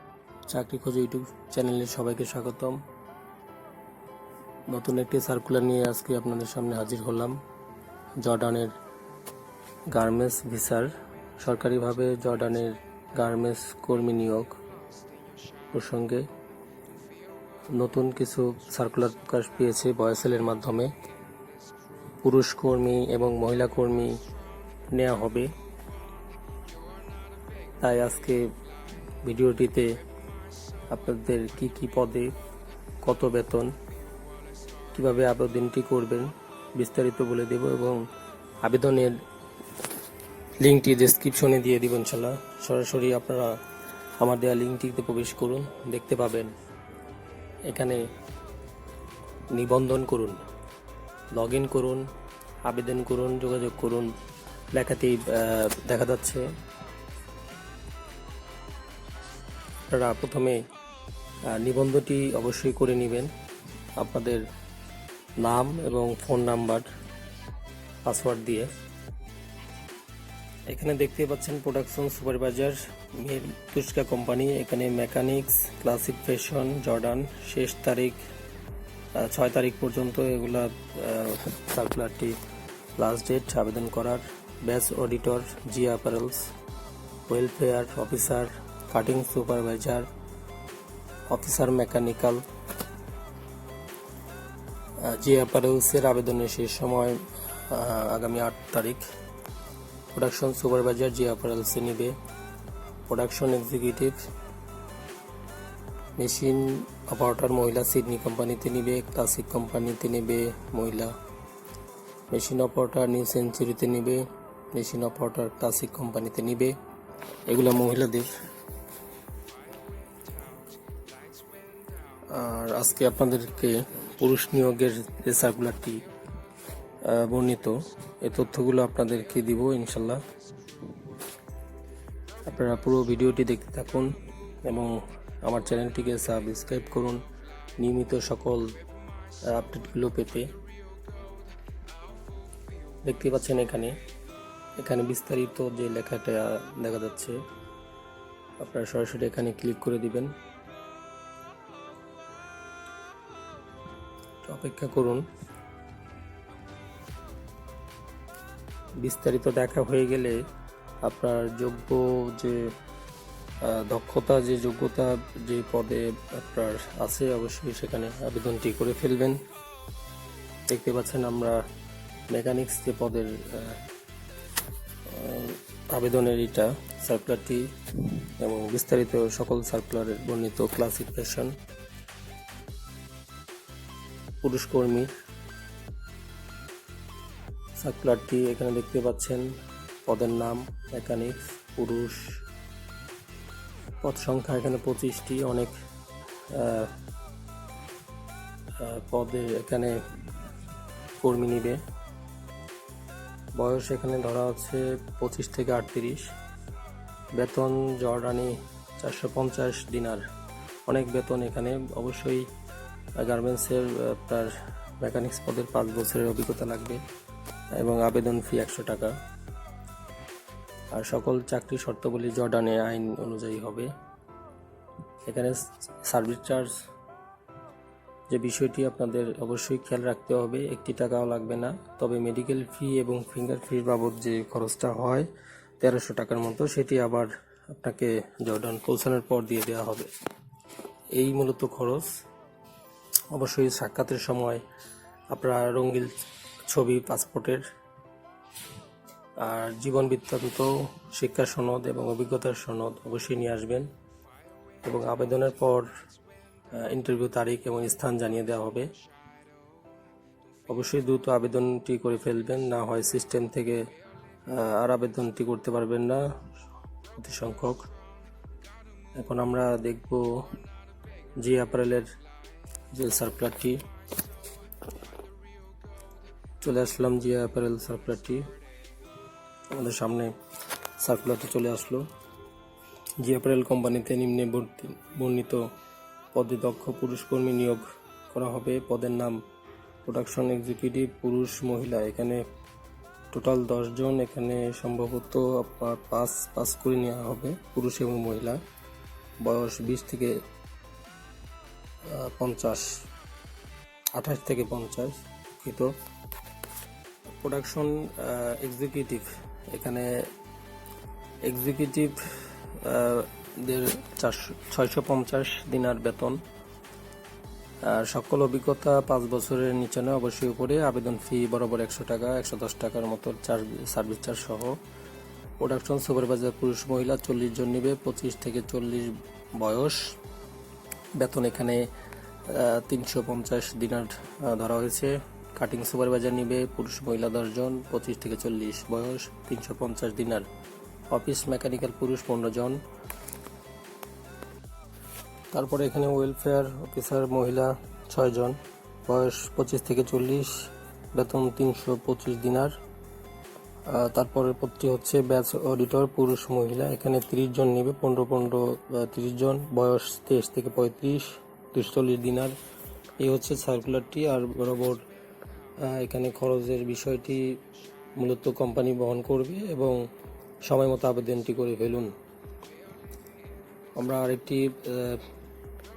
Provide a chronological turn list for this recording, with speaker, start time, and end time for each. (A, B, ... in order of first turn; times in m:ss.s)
0:00.5-0:02.8 A
0:04.7-0:07.4 A
0:08.2-0:08.7 A
0:09.9-0:14.6 A
0:15.7-0:16.2 A
0:17.7-0:20.9 A
0:22.2-0:24.2 A
0:24.9-0:25.5 A
0:27.8-0:28.5 A
0:29.2-0:29.9 A
0:30.9-0:32.3 A
0:33.0-0:33.7 A
0:34.9-0:38.0 A
0:38.6-0:39.2 A
0:40.6-0:43.6 A
0:44.2-0:46.5 A
0:47.7-0:48.0 A
0:49.5-0:50.4 A
0:51.3-0:52.1 A
0:52.6-0:54.1 A
0:54.7-0:56.5 A
0:59.9-1:00.6 A
1:01.5-1:03.3 A
1:04.0-1:04.4 A
1:05.4-1:06.9 A
1:08.0-1:08.7 A
1:10.7-1:18.2 A
1:19.2-1:22.4 A
1:23.0-1:26.5 A
1:27.3-1:30.1 A
1:31.3-1:32.4 A
1:35.0-1:39.0 A
1:40.1-1:42.2 A
1:43.1-1:44.2 A
1:46.2-1:51.1 A
1:52.3-1:56.7 A
1:57.5-1:58.3 A
2:02.3-2:06.0 A
2:07.0-2:10.2 A
2:12.4-2:14.1 A
2:14.6-2:17.2 A
2:17.8-2:18.7 A
2:19.5-2:20.5 A
2:23.0-2:23.9 A
2:24.8-2:27.4 A
2:28.6-2:30.3 A
2:34.4-2:35.3 A
2:39.0-2:40.4 A
2:41.0-2:42.7 A
2:43.6-2:49.4 A
2:50.7-2:51.6 A
2:52.3-2:53.8 A
2:55.1-3:01.5 A
3:04.4-3:05.1 A
3:07.8-3:09.5 A
3:10.0-3:12.4 A
3:14.0-3:15.7 A
3:16.5-3:16.9 A
3:18.8-3:20.0 A
3:21.2-3:21.8 A
3:23.5-3:26.3 A
3:27.3-3:30.2 A
3:30.8-3:32.5 A
3:33.2-3:37.0 A
3:37.8-3:39.1 A
3:40.9-3:43.9 A
3:45.2-3:46.7 A
3:48.3-3:55.3 A
3:55.8-4:00.1 A
4:01.1-4:02.1 A
4:03.3-4:04.6 A
4:05.3-4:06.1 A
4:06.6-4:07.6 A
4:09.4-4:13.9 A
4:14.8-4:15.9 A
4:16.7-4:18.9 A
4:20.7-4:23.8 A
4:24.5-4:26.2 A
4:27.1-4:27.8 A
4:29.2-4:30.4 A
4:31.4-4:32.1 A
4:32.9-4:33.8 A
4:36.6-4:38.5 A
4:39.7-4:40.3 A
4:41.0-4:42.1 A
4:43.2-4:45.7 A
4:46.3-4:49.4 A
4:50.0-4:52.4 A
4:53.3-4:58.6 A
4:59.4-5:00.4 A
5:02.1-5:03.0 A
5:04.1-5:05.9 A
5:07.4-5:10.3 A
5:11.4-5:12.2 A
5:12.7-5:16.4 A
5:17.8-5:24.8 A
5:25.6-5:30.2 A
5:31.2-5:31.9 A
5:32.5-5:40.5 A
5:41.1-5:42.8 A
5:45.5-5:52.7 A
5:53.9-6:02.5 A
6:03.2-6:05.0 A
6:05.8-6:07.6 A
6:08.2-6:10.0 A
6:10.6-6:12.1 A
6:14.0-6:15.2 A